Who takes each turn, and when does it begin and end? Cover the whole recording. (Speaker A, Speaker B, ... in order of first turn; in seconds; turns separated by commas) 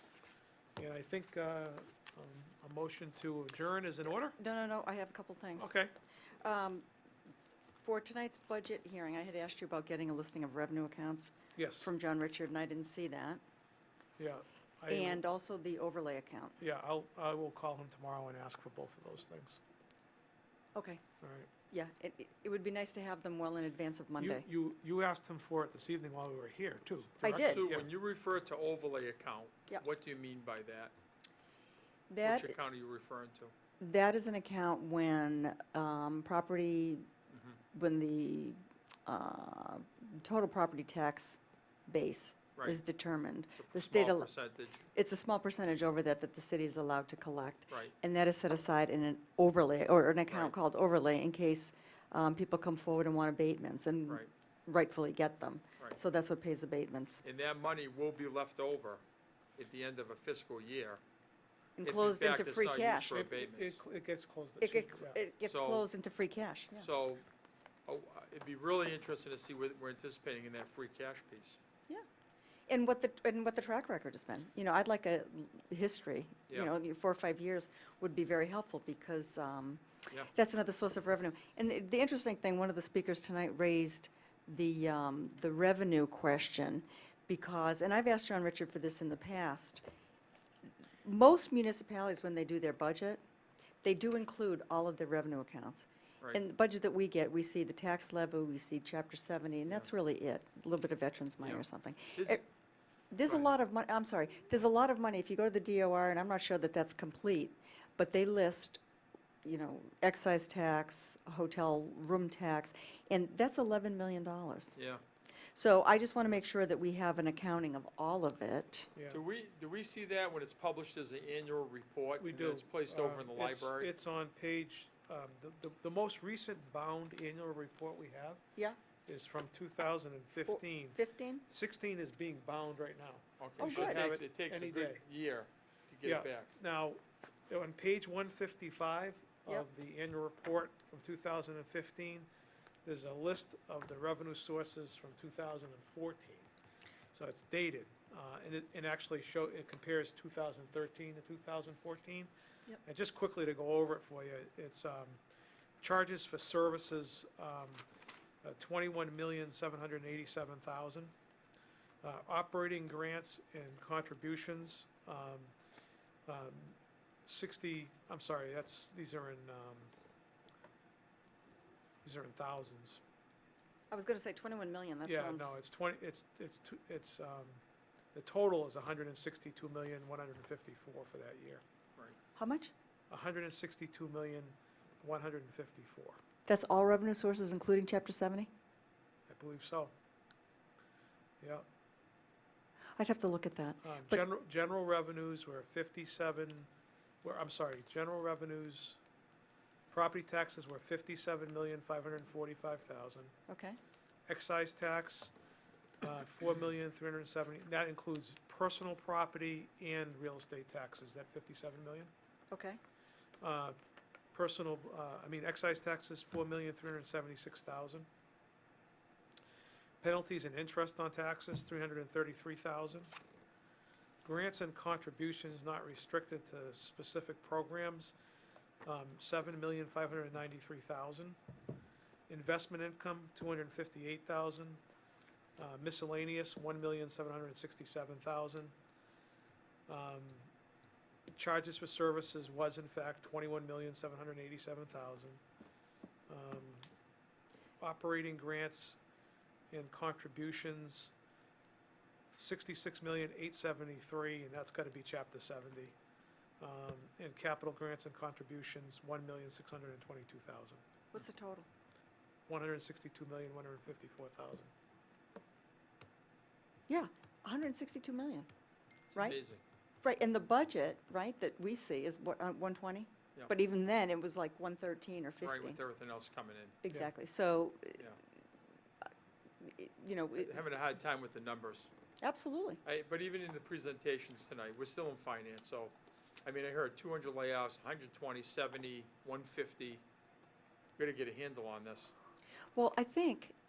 Speaker A: 0.8-4.3, Speaker B: 4.3-5.7, Speaker A: 5.6-5.9, Speaker B: 6.4-6.9, Speaker B: 7.8-13.4, Speaker A: 11.6-11.9, Speaker A: 14.2-15.2, Speaker B: 14.9-16.6, Speaker A: 16.6-19.6, Speaker B: 20.7-21.0, Speaker A: 21.2-21.5, Speaker B: 21.7-24.4, Speaker A: 24.2-27.9, Speaker B: 27.2-27.6, Speaker C: 27.3-30.9, Speaker B: 32.1-32.5, Speaker C: 32.2-33.5, Speaker B: 33.8-37.0, Speaker C: 37.3-37.6, Speaker B: 37.7-44.3, Speaker C: 43.6-44.9, Speaker B: 44.9-57.2, Speaker C: 50.3-50.5, Speaker C: 57.2-59.0, Speaker C: 59.6-61.0, Speaker B: 61.8-63.2, Speaker C: 61.8-63.8, Speaker A: 63.1-65.2, Speaker B: 64.6-66.9, Speaker C: 65.4-65.8, Speaker C: 66.8-67.2, Speaker C: 67.8-71.6, Speaker B: 72.7-89.8, Speaker B: 91.0-93.2, Speaker B: 93.8-102.4, Speaker C: 101.4-102.4, Speaker B: 103.1-108.8, Speaker C: 103.2-103.5, Speaker B: 109.4-114.7, Speaker C: 114.8-115.0, Speaker B: 115.5-118.9, Speaker A: 118.9-119.2, Speaker C: 119.1-123.9, Speaker A: 122.2-128.4, Speaker A: 129.1-135.0, Speaker B: 130.4-131.4, Speaker C: 133.4-136.5, Speaker B: 133.6-134.0, Speaker A: 136.0-142.3, Speaker A: 142.8-146.5, Speaker A: 147.1-152.3, Speaker A: 152.8-155.2, Speaker A: 155.8-157.8, Speaker A: 158.4-161.1, Speaker A: 162.0-165.5, Speaker A: 166.3-169.9, Speaker A: 172.0-173.0, Speaker B: 173.9-175.6, Speaker A: 175.0-177.6, Speaker A: 178.1-181.6, Speaker B: 182.3-182.7, Speaker A: 183.1-186.2, Speaker B: 186.5-188.5, Speaker A: 189.3-189.9, Speaker A: 191.4-191.7, Speaker B: 193.0-194.2, Speaker A: 193.8-196.7, Speaker A: 197.2-199.0, Speaker A: 199.9-203.3, Speaker B: 203.5-203.8, Speaker A: 204.3-205.3, Speaker A: 206.0-212.1, Speaker B: 212.5-212.8, Speaker A: 213.4-213.8, Speaker A: 214.3-218.1, Speaker A: 220.0-223.1, Speaker A: 224.2-228.1, Speaker A: 228.8-231.4, Speaker A: 232.3-234.8, Speaker A: 235.6-238.7, Speaker A: 239.9-240.5, Speaker A: 241.3-245.4, Speaker A: 246.3-246.9, Speaker A: 247.8-249.0, Speaker A: 249.7-251.1, Speaker A: 252.3-255.9, Speaker A: 256.6-260.8, Speaker B: 261.1-261.7, Speaker A: 262.5-264.7, Speaker B: 266.9-268.5, Speaker C: 269.1-269.6, Speaker B: 270.0-275.8, Speaker C: 275.4-276.8, Speaker B: 276.8-278.0, Speaker B: 279.6-280.6, Speaker C: 280.4-281.9, Speaker B: 282.2-282.8, Speaker C: 282.8-285.9, Speaker C: 286.4-290.0, Speaker C: 291.0-292.1, Speaker B: 292.7-293.5